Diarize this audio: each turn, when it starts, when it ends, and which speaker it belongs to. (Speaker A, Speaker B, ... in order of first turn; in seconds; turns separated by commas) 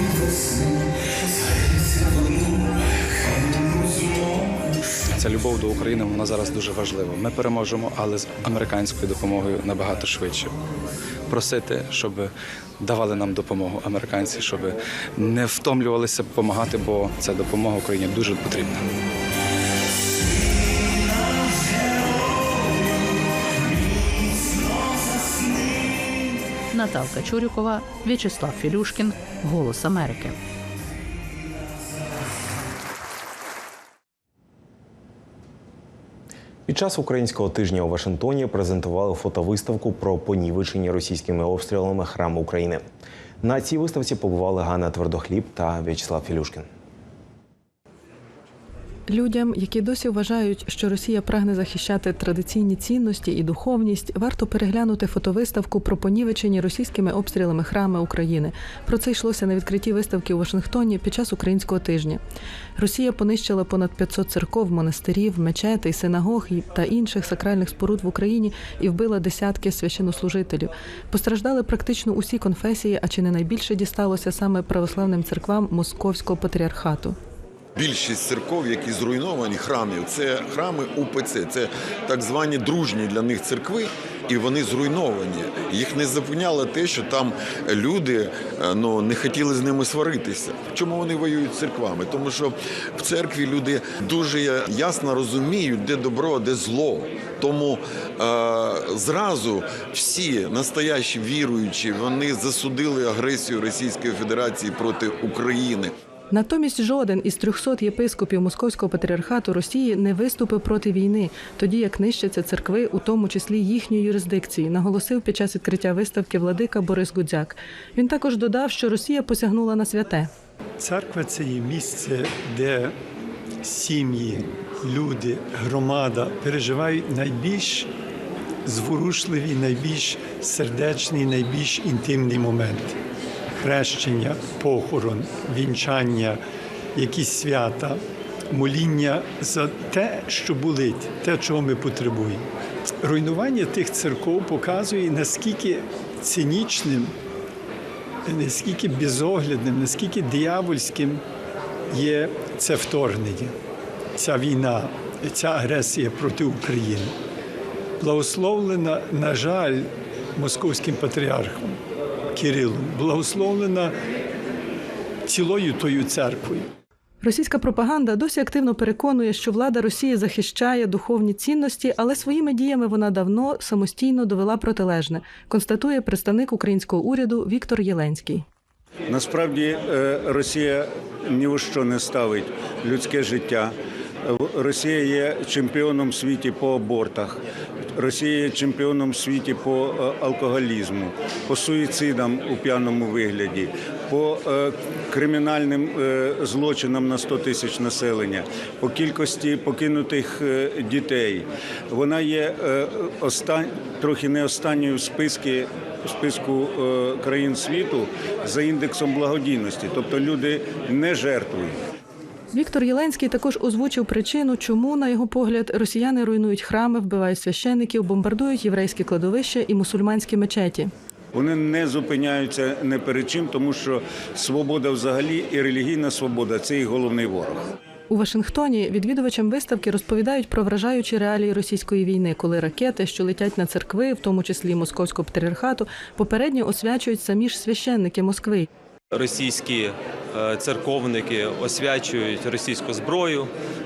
Speaker A: 5.1-10.5, Speaker A: 11.3-18.8, Speaker B: 26.7-30.4, Speaker C: 36.7-42.8, Speaker C: 43.4-46.6, Speaker D: 49.1-62.2, Speaker D: 62.8-77.2, Speaker E: 77.8-105.9, Speaker D: 106.3-120.3, Speaker F: 120.8-122.9, Speaker F: 123.6-127.9, Speaker F: 128.6-132.9, Speaker F: 133.6-136.4, Speaker F: 136.9-142.4, Speaker F: 143.0-147.1, Speaker F: 148.2-151.2, Speaker F: 151.9-153.5, Speaker F: 154.2-157.1, Speaker F: 158.0-161.8, Speaker F: 162.3-163.9, Speaker F: 165.2-166.7, Speaker D: 167.2-178.4, Speaker G: 179.1-183.7, Speaker G: 184.2-187.4, Speaker G: 187.9-211.7, Speaker D: 212.5-220.9, Speaker G: 221.3-227.6, Speaker D: 228.1-238.7, Speaker H: 239.1-243.5